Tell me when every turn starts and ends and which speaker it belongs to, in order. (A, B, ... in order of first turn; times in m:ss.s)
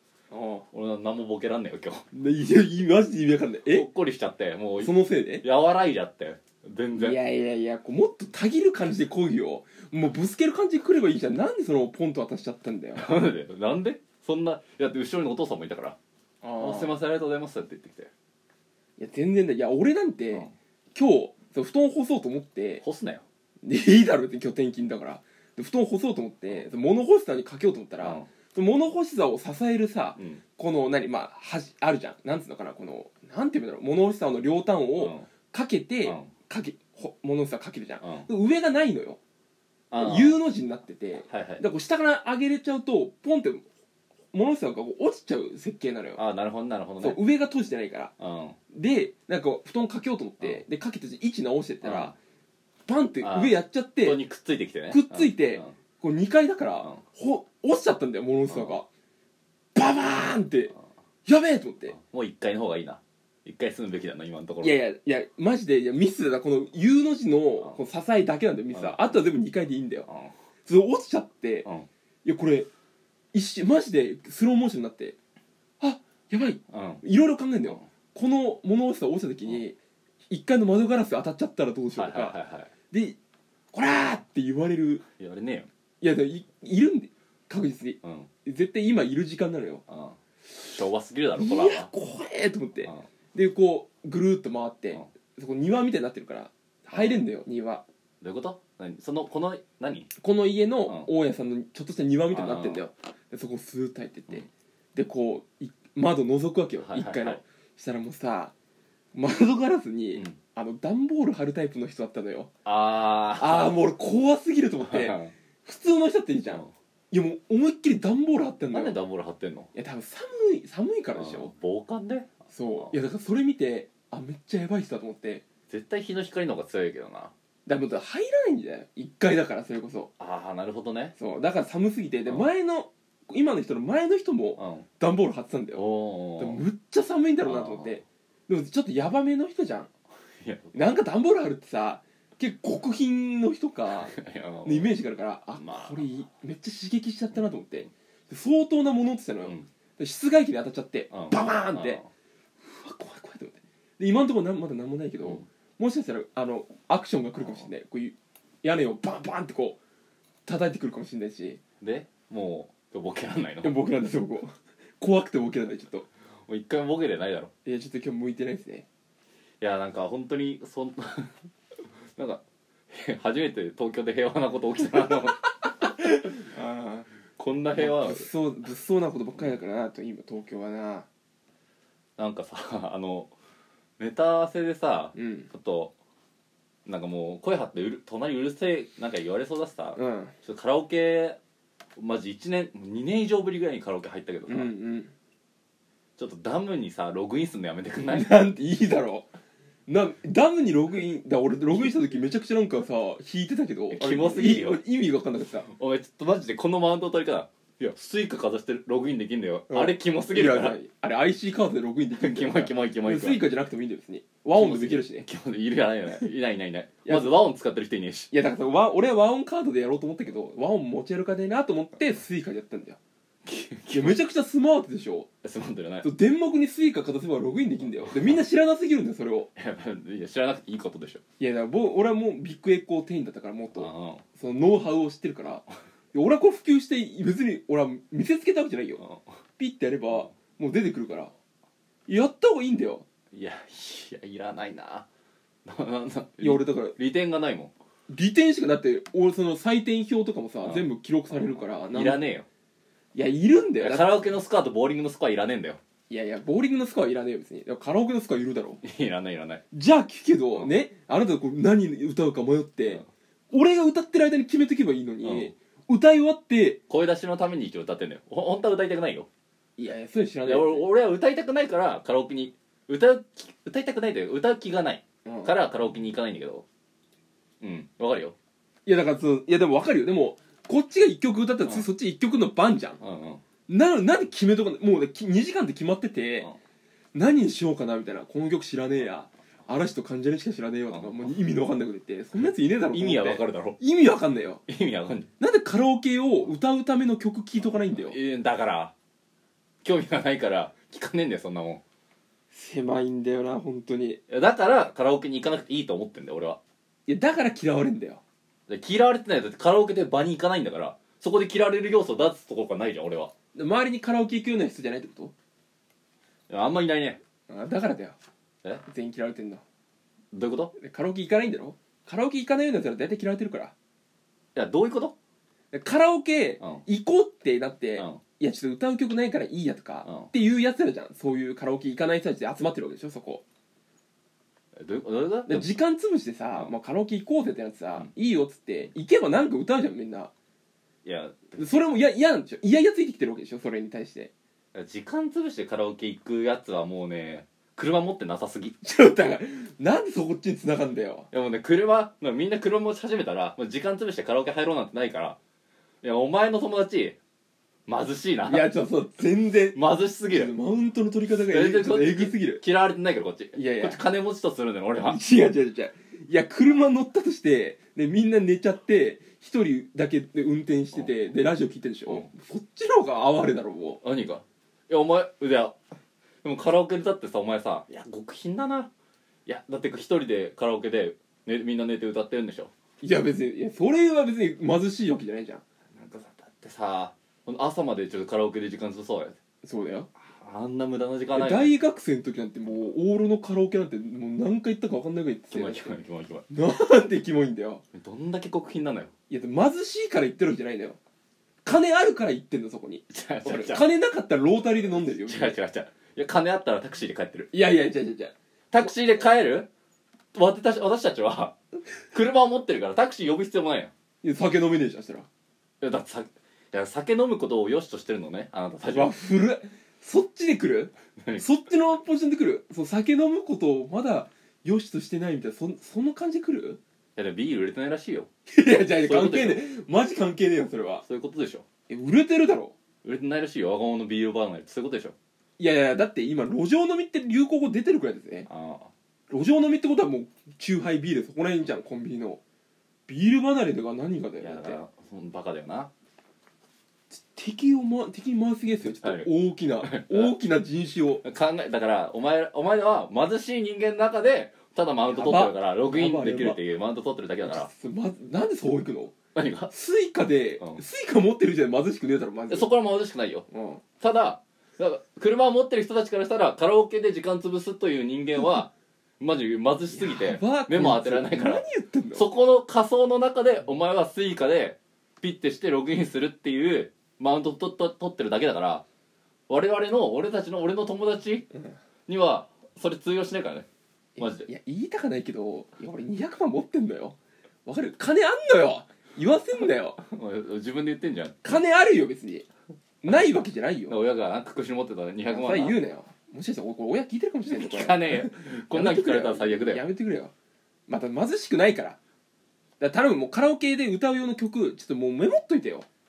0:00.3-0:00.6 A
0:00.7-0:02.0 B
0:02.1-0:03.9 A
0:03.7-0:07.2 B
0:04.8-0:05.4 A
0:07.0-0:13.1 A
0:13.0-0:16.0 B
0:16.4-0:17.0 A
0:16.6-0:18.1 B
0:19.0-0:22.8 A
0:22.8-0:23.2 B
0:23.6-0:39.2 A
0:28.0-0:28.3 B
0:30.2-0:30.4 B
0:35.0-0:35.3 B
0:36.0-0:36.3 B
0:38.0-0:38.3 B
0:39.9-0:40.4 B
0:40.0-0:43.7 A
0:41.3-0:41.6 B
0:44.3-0:46.2 A
0:46.2-0:47.2 B
0:47.0-0:48.1 A
0:48.2-0:48.6 B
0:48.7-0:52.2 A
0:51.8-0:52.2 B
0:52.9-0:54.2 A
0:53.2-0:55.7 B
0:54.9-0:58.9 A
0:58.5-0:58.8 B
0:59.8-1:00.7 A
1:01.3-1:02.0 A
1:02.0-1:04.8 B
1:04.6-1:10.1 A
1:08.7-1:09.2 B
1:10.1-1:10.3 B
1:10.7-1:11.7 A
1:12.2-1:12.7 A
1:13.3-1:15.2 A
1:15.8-1:19.8 A
1:16.7-1:17.0 B
1:20.3-1:22.4 A
1:22.0-1:22.7 B
1:22.9-1:23.2 A
1:23.7-1:25.0 A
1:25.2-1:25.7 B
1:26.0-1:29.8 A
1:28.0-1:28.3 B
1:29.9-1:31.9 B
1:31.4-1:37.8 A
1:36.9-1:37.2 B
1:38.2-1:40.1 B
1:40.2-1:48.5 A
1:42.3-1:42.8 B
1:46.8-1:47.4 B
1:49.1-1:52.5 A
1:52.6-1:53.8 B
1:53.4-1:59.0 A
1:54.8-1:55.3 B
1:58.7-1:59.7 B
1:59.7-2:01.5 A
2:01.2-2:02.9 B
2:02.5-2:05.4 A
2:05.7-2:07.3 B
2:07.7-2:10.1 A
2:10.2-2:11.2 B
2:11.2-2:15.8 A
2:14.6-2:14.9 B
2:15.7-2:16.6 B
2:16.4-2:19.9 A
2:17.4-2:18.0 B
2:20.4-2:20.8 B
2:20.7-2:24.1 A
2:23.9-2:25.0 B
2:24.6-2:32.0 A
2:25.6-2:26.1 B
2:31.1-2:32.1 B
2:32.6-2:39.8 A
2:40.5-2:41.6 A
2:41.8-2:43.8 B
2:43.6-2:46.1 A
2:46.5-2:47.5 B
2:47.6-2:48.9 A
2:49.6-2:51.3 B
2:52.2-2:55.5 B
2:56.0-2:57.1 A
2:57.4-2:58.3 B
2:57.8-3:01.1 A
3:02.2-3:03.3 B
3:04.0-3:05.9 B
3:05.2-3:05.5 A
3:06.9-3:11.4 B
3:10.0-3:10.3 A
3:12.0-3:14.7 B
3:14.5-3:15.1 A
3:16.2-3:18.5 B
3:18.1-3:19.3 A
3:19.9-3:25.7 A
3:23.9-3:24.8 B
3:25.6-3:30.8 B
3:29.7-3:35.2 A
3:32.2-3:33.4 B
3:34.5-3:38.3 B
3:37.0-3:37.4 A
3:38.3-3:43.0 A
3:43.5-3:44.2 B
3:43.9-3:45.3 A
3:45.4-3:46.1 B
3:46.0-3:49.5 A
3:47.9-3:48.4 B
3:49.6-3:51.2 B
3:51.4-3:59.0 A
3:53.8-3:54.2 B
3:59.0-3:59.3 B
3:59.6-4:01.3 A
4:02.1-4:03.1 A
4:03.3-4:05.1 B
4:05.7-4:07.7 B
4:06.4-4:07.0 A
4:08.1-4:12.2 A
4:10.6-4:12.5 B
4:13.2-4:14.2 A
4:13.8-4:15.8 B
4:16.1-4:18.8 A
4:18.8-4:19.6 B
4:19.7-4:26.8 A
4:25.2-4:25.5 B
4:26.9-4:29.3 B
4:29.8-4:30.9 A
4:30.4-4:36.6 B
4:35.3-4:35.5 A
4:37.6-4:38.4 B
4:38.9-4:43.0 A
4:43.0-4:43.4 B
4:43.7-4:46.5 A
4:47.1-4:54.6 A
4:50.9-4:51.3 B
4:52.4-4:53.8 B
4:54.7-4:55.3 B
4:55.4-4:58.2 A
4:57.9-4:58.9 B
4:59.8-5:01.8 B
5:02.5-5:04.2 A
5:04.3-5:06.6 B
5:07.1-5:08.2 A
5:08.7-5:13.3 B
5:13.6-5:15.3 A
5:16.5-5:17.2 B
5:17.5-5:18.2 A
5:18.9-5:19.6 A
5:20.3-5:20.7 B
5:20.8-5:23.7 A
5:24.6-5:25.2 B
5:25.7-5:33.4 A
5:30.0-5:30.3 B
5:34.8-5:35.7 B
5:35.5-5:40.3 A
5:41.0-5:41.6 B
5:41.6-5:44.3 A
5:44.7-5:48.8 B
5:48.8-5:51.3 A
5:51.3-5:55.4 B
5:56.0-5:57.2 B
5:57.9-5:58.7 B
5:58.4-6:02.6 A
5:59.7-6:00.5 B
6:01.4-6:05.2 B
6:03.5-6:04.0 A
6:05.0-6:14.0 A
6:14.0-6:15.8 B
6:16.4-6:18.9 B
6:19.5-6:22.7 B
6:23.0-6:25.6 A
6:25.9-6:29.4 B
6:29.6-6:30.1 A
6:30.2-6:31.7 B
6:31.3-6:36.0 A
6:35.5-6:36.5 B
6:36.5-6:37.8 A
6:37.9-6:39.1 B
6:39.3-6:41.0 A
6:41.6-6:45.6 A
6:43.1-6:43.9 B
6:45.2-6:47.5 B
6:47.5-6:48.3 A
6:48.7-6:49.7 B
6:50.3-6:51.6 B
6:52.1-6:53.9 B
6:54.2-6:55.3 A
6:55.8-6:59.1 B
6:58.8-7:06.8 A
7:07.2-7:08.3 B
7:08.5-7:11.0 A
7:09.0-7:09.7 B
7:11.0-7:11.6 B
7:11.9-7:12.8 A
7:13.0-7:15.2 B
7:15.6-7:18.5 A
7:18.5-7:18.9 B
7:19.3-7:22.4 A
7:23.1-7:24.8 A
7:24.4-7:25.9 B
7:27.1-7:31.2 A
7:29.0-7:30.3 B
7:31.2-7:37.7 B
7:35.1-7:36.6 A
7:37.4-7:39.1 A
7:39.4-7:39.7 B
7:39.7-7:42.7 A
7:42.5-7:43.5 B
7:43.5-7:43.8 A
7:44.0-7:51.6 B
7:49.9-7:52.3 A
7:52.2-7:58.8 B
7:59.5-8:01.5 B
8:02.1-8:03.7 B
8:04.2-8:10.0 A
8:04.2-8:04.5 B
8:10.0-8:11.6 B
8:11.4-8:12.5 A
8:13.0-8:14.0 A
8:13.9-8:15.8 B
8:15.3-8:20.3 A
8:17.5-8:19.8 B
8:20.9-8:22.0 A
8:22.8-8:25.9 A